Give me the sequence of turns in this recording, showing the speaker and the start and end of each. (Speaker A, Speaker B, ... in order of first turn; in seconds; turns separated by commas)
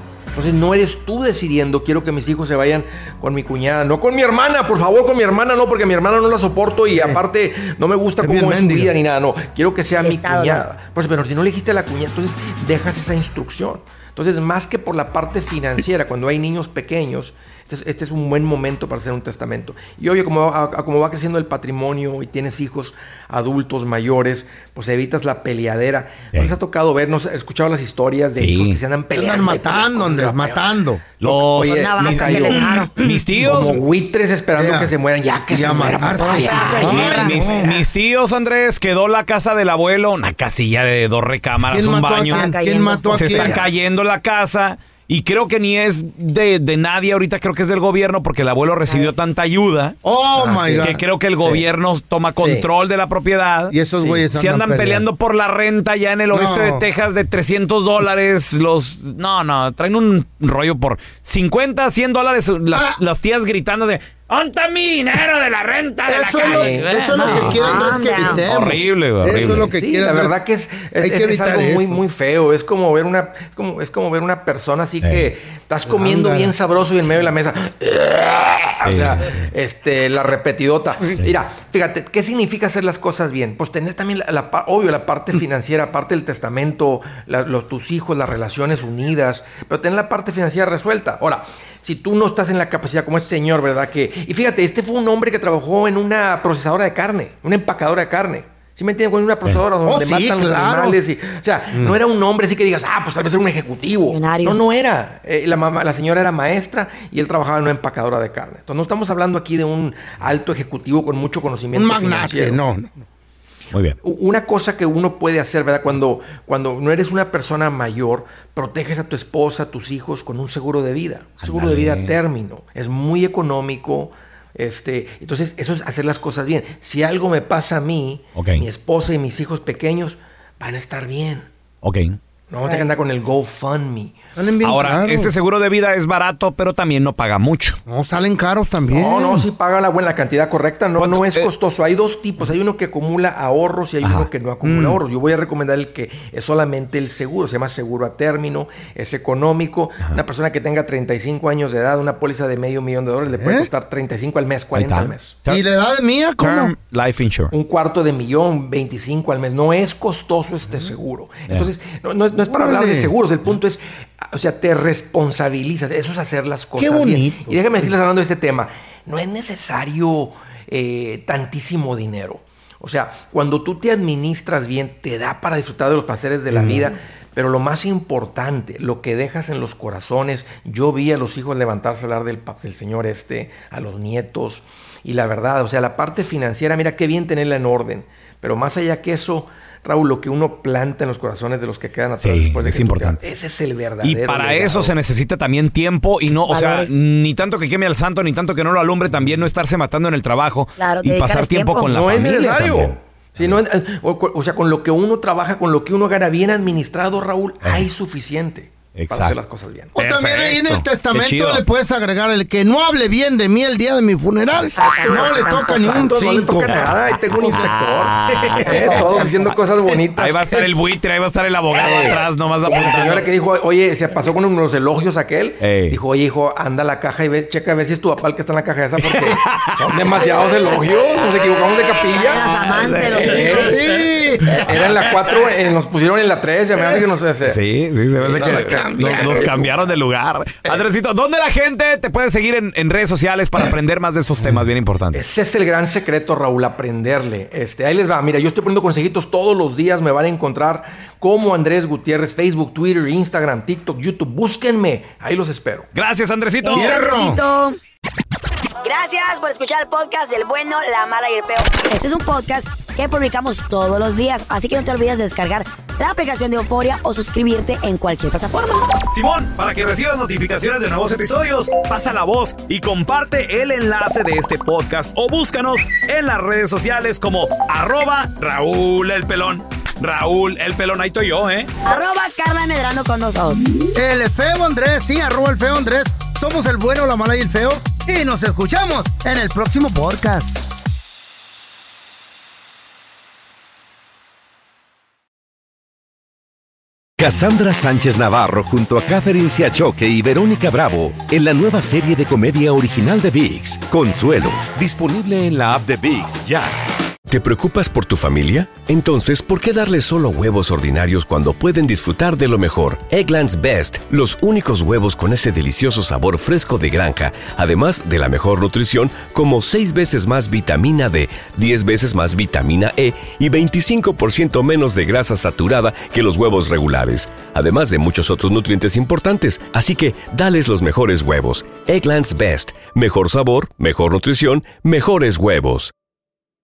Speaker A: 0.3-30.7, Speaker B: 6.9-7.2, Speaker B: 8.2-8.9, Speaker C: 10.0-10.7, Speaker D: 28.4-28.8, Speaker B: 29.1-31.1, Speaker D: 31.2-33.8, Speaker A: 31.2-37.8, Speaker C: 31.6-32.9, Speaker B: 32.7-33.6, Speaker B: 34.5-34.9, Speaker B: 35.5-37.8, Speaker C: 36.2-37.5, Speaker D: 36.8-42.5, Speaker B: 41.7-43.6, Speaker C: 42.2-43.5, Speaker D: 43.1-50.0, Speaker A: 43.2-43.7, Speaker C: 48.9-49.1, Speaker B: 50.0-51.0, Speaker A: 50.4-51.6, Speaker D: 50.8-53.7, Speaker A: 52.4-52.6, Speaker B: 53.7-55.0, Speaker D: 54.3-69.7, Speaker B: 56.3-56.8, Speaker B: 62.7-63.0, Speaker B: 66.0-70.4, Speaker A: 66.4-67.7, Speaker C: 67.3-68.4, Speaker A: 69.3-112.6, Speaker B: 71.0-72.0, Speaker D: 75.0-75.3, Speaker B: 75.8-76.5, Speaker D: 78.8-79.5, Speaker B: 99.8-101.0, Speaker C: 104.1-104.6, Speaker B: 111.7-113.0, Speaker D: 113.7-114.0, Speaker A: 114.0-131.5, Speaker D: 121.4-122.2, Speaker D: 128.3-128.6, Speaker D: 131.8-132.2, Speaker A: 132.5-134.2, Speaker B: 134.3-135.3, Speaker D: 134.6-137.8, Speaker B: 137.9-139.5, Speaker A: 138.9-155.4, Speaker D: 141.0-141.5, Speaker B: 144.6-145.0, Speaker B: 153.3-153.7, Speaker D: 154.7-155.6, Speaker B: 155.5-156.7, Speaker D: 156.4-157.5, Speaker A: 157.5-194.9, Speaker B: 160.6-160.9, Speaker B: 162.4-163.1, Speaker B: 166.8-167.9, Speaker B: 176.5-176.9, Speaker D: 192.2-193.2, Speaker D: 194.0-203.6, Speaker C: 196.5-197.0, Speaker C: 200.8-201.9, Speaker A: 201.9-209.9, Speaker D: 207.6-207.9, Speaker D: 208.9-209.4, Speaker B: 209.9-217.4, Speaker D: 209.9-211.6, Speaker C: 214.8-216.4, Speaker A: 214.8-220.6, Speaker D: 217.3-219.5, Speaker C: 218.7-219.4, Speaker D: 220.1-223.3, Speaker A: 221.8-233.8, Speaker D: 225.6-226.0, Speaker D: 229.0-230.3, Speaker C: 232.1-233.7, Speaker D: 232.1-234.9, Speaker B: 233.2-234.7, Speaker A: 234.5-237.6, Speaker D: 237.4-245.2, Speaker B: 238.2-239.7, Speaker A: 238.2-239.6, Speaker A: 245.1-255.9, Speaker D: 255.9-256.9, Speaker C: 256.6-257.8, Speaker B: 256.7-257.4, Speaker C: 258.8-268.9, Speaker D: 269.1-281.7, Speaker C: 281.9-283.7, Speaker B: 283.9-290.6, Speaker E: 297.2-306.8, Speaker F: 307.3-335.9